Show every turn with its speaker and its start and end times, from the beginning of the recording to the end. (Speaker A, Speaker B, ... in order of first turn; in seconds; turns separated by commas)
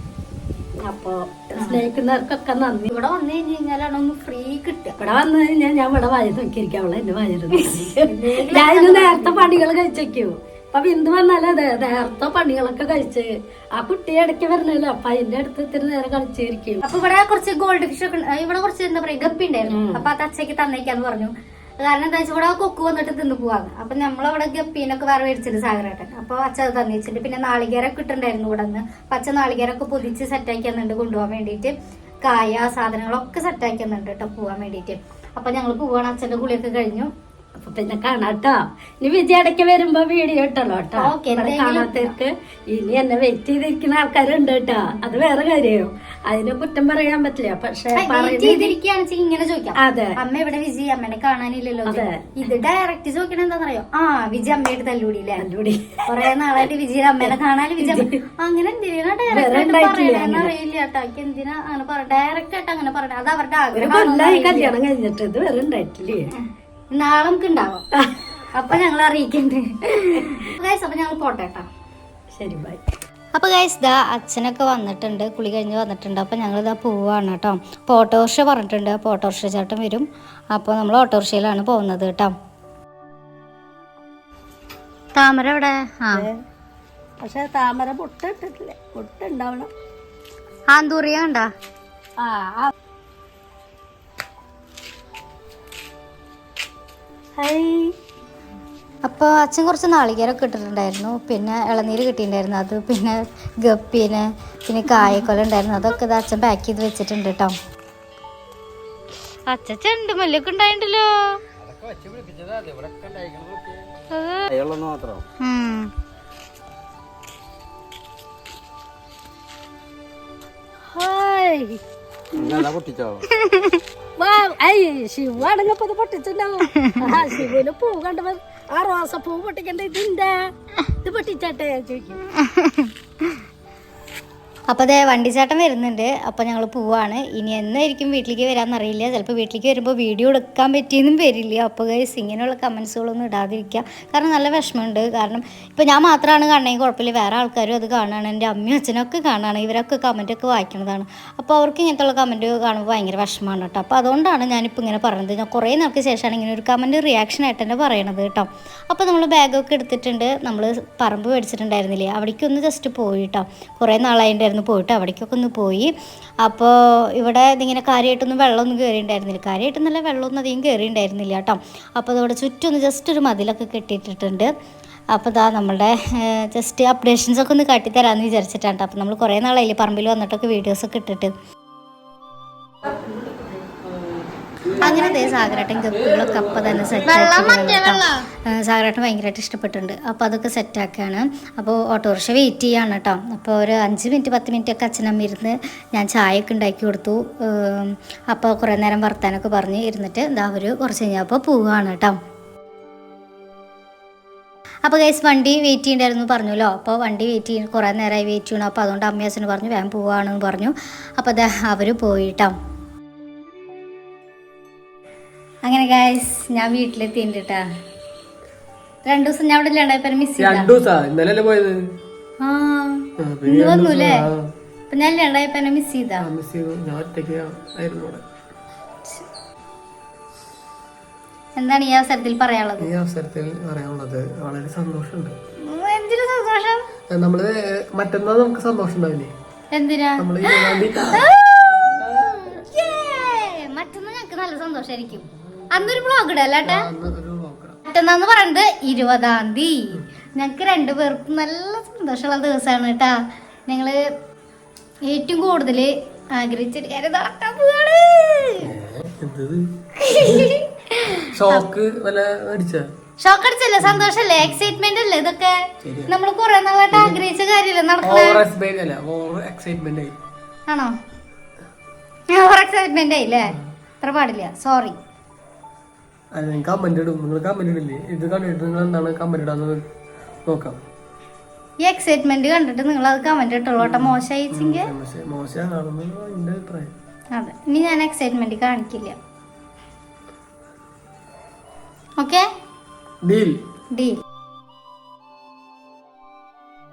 Speaker A: 0.8-2.9, Speaker B: 1.6-1.8, Speaker B: 2.9-5.0, Speaker A: 5.0-16.8, Speaker B: 7.5-9.6, Speaker B: 16.8-37.1, Speaker A: 19.7-20.1, Speaker A: 37.6-48.8, Speaker B: 41.0-42.1, Speaker B: 47.9-55.5, Speaker A: 49.8-50.1, Speaker A: 51.9-52.2, Speaker A: 55.4-56.0, Speaker B: 56.1-64.7, Speaker A: 57.2-58.2, Speaker A: 59.3-60.5, Speaker A: 63.8-66.3, Speaker B: 66.9-67.8, Speaker B: 68.5-71.7, Speaker A: 72.3-72.8, Speaker B: 73.3-82.3, Speaker B: 85.2-86.3, Speaker A: 86.1-86.4, Speaker A: 87.2-89.7, Speaker B: 90.7-91.5, Speaker A: 92.2-92.7, Speaker A: 97.4-98.0, Speaker B: 99.0-107.5, Speaker A: 105.0-105.3, Speaker B: 109.5-111.4, Speaker C: 111.7-113.8, Speaker B: 114.1-114.5, Speaker C: 114.5-115.2, Speaker B: 115.4-115.9, Speaker A: 120.9-121.8, Speaker A: 122.3-122.7, Speaker C: 122.5-123.2, Speaker B: 123.3-123.8, Speaker A: 124.2-132.2, Speaker B: 126.7-127.2, Speaker B: 132.3-132.9, Speaker B: 134.7-174.5, Speaker B: 175.1-181.3, Speaker B: 184.7-202.2, Speaker B: 204.8-212.6, Speaker B: 215.7-217.7, Speaker B: 219.1-220.7, Speaker D: 220.4-221.8, Speaker B: 222.4-224.3, Speaker D: 223.2-224.5, Speaker B: 224.9-226.3, Speaker D: 226.2-228.2, Speaker B: 231.6-232.9, Speaker D: 232.8-235.3, Speaker B: 235.6-236.9, Speaker D: 237.1-239.3, Speaker B: 239.7-246.9, Speaker D: 240.2-241.3, Speaker D: 246.6-247.8, Speaker B: 247.9-254.1, Speaker B: 255.1-258.7, Speaker D: 258.6-260.6, Speaker B: 260.0-261.7, Speaker D: 261.3-262.9, Speaker B: 263.2-268.4, Speaker D: 263.8-264.1, Speaker D: 265.8-266.1, Speaker D: 266.9-267.2, Speaker D: 268.0-270.2, Speaker B: 270.7-271.0, Speaker B: 272.3-275.0, Speaker D: 276.4-279.8, Speaker D: 280.5-280.8, Speaker B: 281.8-284.9, Speaker D: 283.8-286.9, Speaker B: 287.4-289.2, Speaker B: 292.2-292.5, Speaker D: 293.2-293.6, Speaker B: 293.9-294.2